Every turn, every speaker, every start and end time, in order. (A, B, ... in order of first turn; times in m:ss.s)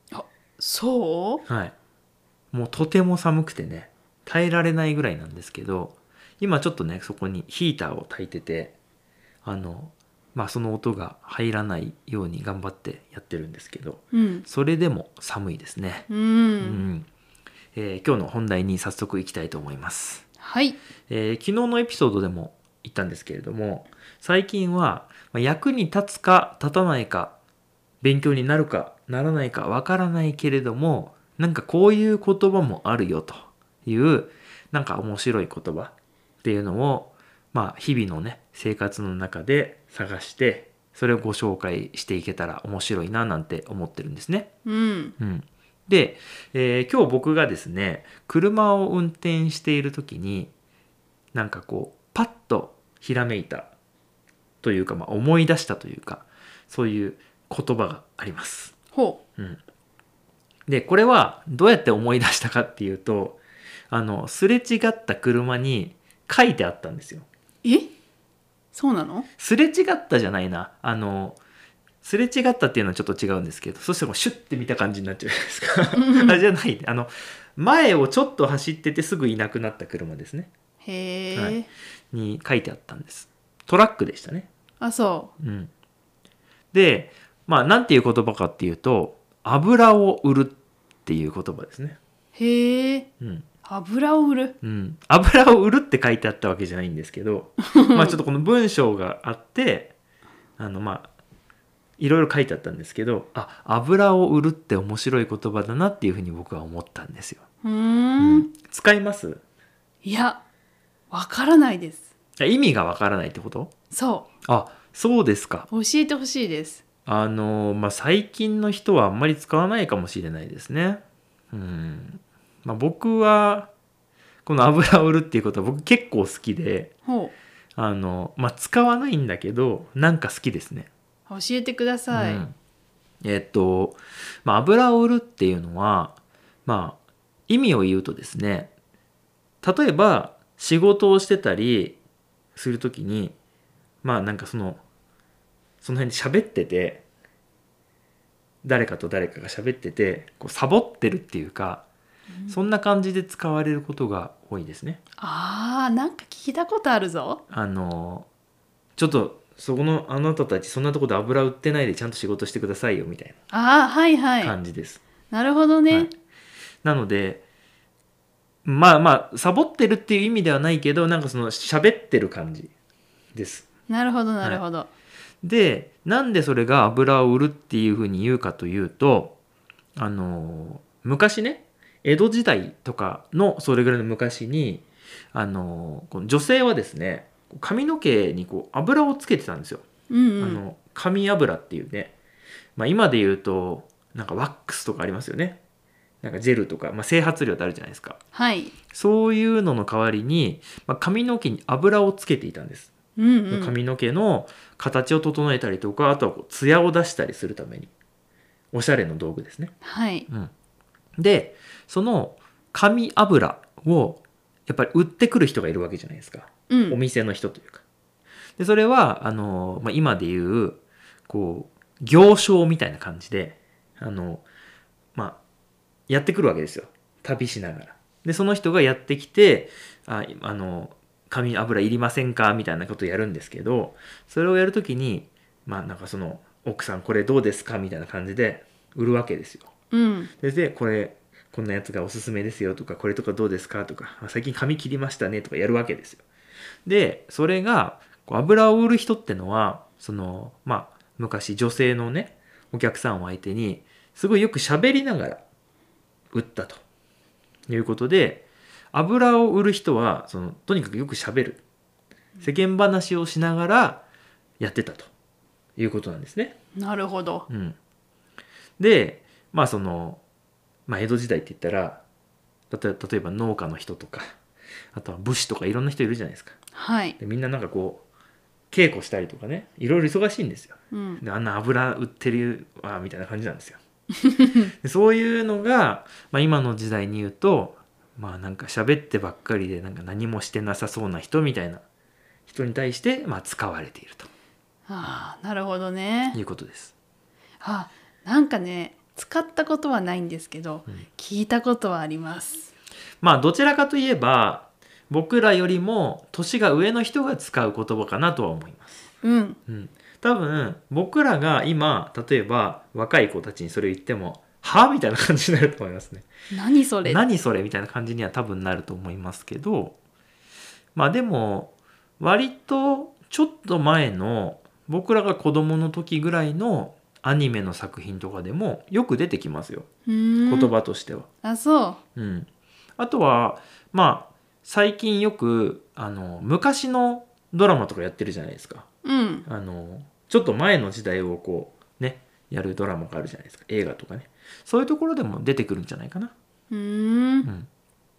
0:00.1-0:01.4 A
0:01.5-0:01.8 B
0:02.5-0:08.8 B
0:09.4-0:16.1 B
0:14.1-0:14.5 A
0:16.1-0:16.8 A
0:16.6-0:17.1 B
0:17.8-0:20.2 B
0:20.4-0:20.8 A
0:21.1-0:27.4 B
0:28.0-0:44.5 B
0:44.6-0:45.1 A
0:45.2-0:50.5 B
0:51.3-0:53.7 B
0:54.6-0:58.8 B
0:58.9-0:59.2 A
1:00.7-1:03.4 B
1:03.9-1:07.3 B
1:07.6-1:07.9 A
1:08.7-1:09.3 A
1:09.4-1:11.4 B
1:12.0-1:20.5 B
1:16.0-1:16.4 A
1:20.8-1:21.7 A
1:21.3-1:24.5 B
1:24.8-1:25.3 A
1:25.4-1:25.7 B
1:26.7-1:32.0 B
1:32.4-1:33.1 A
1:33.2-1:33.5 B
1:33.6-1:34.5 A
1:34.6-1:40.0 B
1:37.8-1:38.1 A
1:40.6-1:41.1 B
1:42.0-1:47.4 B
1:47.6-1:48.5 A
1:48.2-1:49.4 B
1:50.0-1:50.4 A
1:51.1-1:52.1 A
1:52.4-1:53.7 B
1:53.9-1:54.3 A
1:54.4-1:55.7 B
1:55.7-1:56.8 A
1:57.1-2:03.7 B
2:04.4-2:06.9 B
2:07.0-2:07.3 A
2:07.8-2:10.9 B
2:11.3-2:12.4 A
2:12.1-2:12.6 B
2:13.2-2:18.7 B
2:19.6-2:22.0 B
2:22.6-2:23.4 B
2:24.0-2:24.8 B
2:25.8-2:27.0 B
2:28.6-2:31.9 B
2:32.5-2:35.0 B
2:35.2-2:37.4 A
2:37.5-2:38.3 B
2:39.0-2:43.4 B
2:43.5-2:44.6 A
2:44.4-2:45.0 B
2:45.3-2:46.1 A
2:46.8-2:47.4 B
2:48.6-2:52.7 B
2:53.4-2:53.7 B
2:53.9-2:54.9 A
2:55.4-2:59.4 B
3:00.0-3:09.8 B
3:10.1-3:10.6 A
3:10.4-3:12.2 B
3:12.8-3:15.6 B
3:16.2-3:18.2 B
3:18.3-3:18.8 A
3:18.9-3:22.9 B
3:23.2-3:23.8 A
3:23.5-3:27.9 B
3:28.7-3:29.7 B
3:29.8-3:30.3 A
3:31.2-3:37.8 B
3:36.7-3:37.0 A
3:38.6-3:44.4 B
3:46.1-3:59.7 B
3:59.9-4:00.3 A
4:00.4-4:06.2 B
4:06.9-4:15.4 B
4:16.3-4:16.8 B
4:17.7-4:21.6 B
4:22.4-4:24.0 B
4:24.6-4:25.1 B
4:25.8-4:26.6 B
4:26.8-4:27.5 A
4:27.5-4:27.8 B
4:28.8-4:30.2 B
4:30.9-4:32.0 B
4:32.7-4:34.3 B
4:34.9-4:36.6 B
4:36.7-4:37.2 A
4:37.2-4:38.0 B
4:38.7-4:43.8 B
4:40.9-4:41.2 A
4:44.8-4:51.8 B
4:52.5-4:54.3 B
4:54.9-4:56.4 A
4:56.3-4:56.9 B
4:57.6-5:02.7 A
5:03.2-5:09.0 B
5:09.2-5:09.6 A
5:09.7-5:16.3 B
5:16.5-5:17.2 A
5:17.0-5:20.0 B
5:21.0-5:29.9 B
5:30.1-5:30.7 A
5:30.5-5:31.3 B
5:31.4-5:32.0 A
5:32.2-5:38.9 B
5:39.0-5:39.5 A
5:39.5-5:46.3 B
5:46.7-5:47.5 A
5:47.4-5:47.7 B